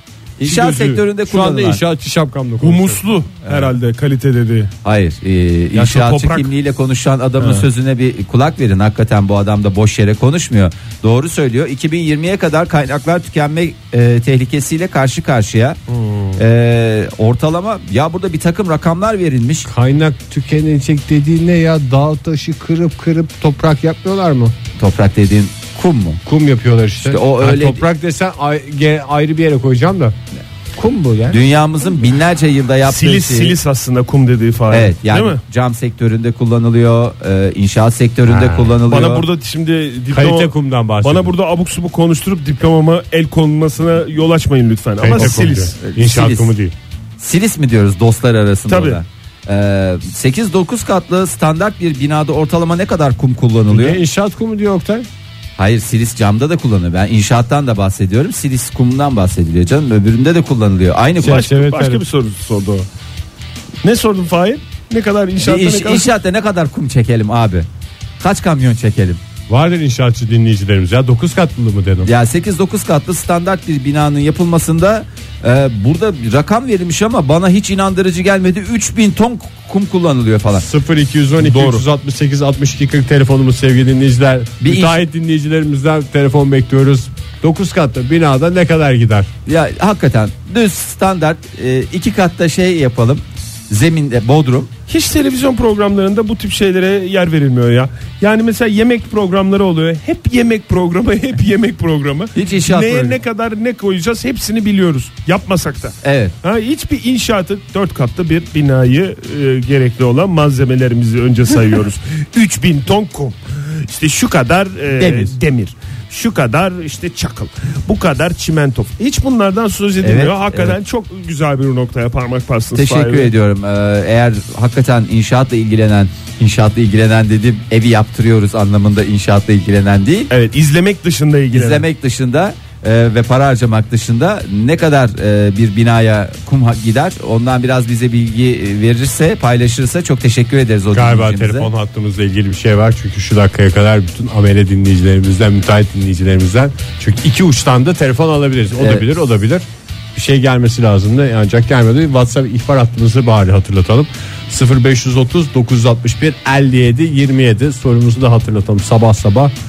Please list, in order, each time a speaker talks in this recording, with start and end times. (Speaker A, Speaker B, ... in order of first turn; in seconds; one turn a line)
Speaker A: 0.4-1.8
Speaker B: 0.4-3.0
Speaker C: 2.6-4.7
Speaker A: 3.4-3.8
Speaker A: 4.8-15.8
Speaker C: 5.8-6.5
Speaker C: 7.4-7.7
Speaker B: 16.0-16.4
Speaker A: 16.4-19.7
Speaker B: 19.6-24.6
Speaker A: 24.8-26.2
Speaker B: 26.2-30.2
Speaker A: 27.0-27.8
Speaker B: 30.8-31.4
Speaker A: 31.3-33.6
Speaker C: 32.9-35.4
Speaker A: 34.7-39.3
Speaker B: 38.3-38.8
Speaker C: 38.9-45.8
Speaker B: 40.1-41.3
Speaker B: 45.0-46.7
Speaker A: 45.2-46.5
Speaker A: 47.2-54.0
Speaker C: 48.7-49.0
Speaker B: 53.7-55.1
Speaker A: 55.6-61.5
Speaker B: 61.2-62.0
Speaker C: 61.2-62.9
Speaker C: 63.8-66.1
Speaker A: 65.4-67.7
Speaker A: 68.2-69.2
Speaker B: 69.5-72.1
Speaker A: 72.0-80.7
Speaker B: 80.6-89.3
Speaker C: 81.4-81.8
Speaker A: 84.6-85.0
Speaker A: 89.5-94.7
Speaker C: 94.9-123.3
Speaker A: 102.3-103.2
Speaker A: 106.0-106.3
Speaker A: 115.0-115.3
Speaker A: 120.0-120.8
Speaker A: 122.7-130.3
Speaker C: 130.3-131.8
Speaker A: 131.5-141.7
Speaker B: 140.9-159.5
Speaker A: 148.8-149.0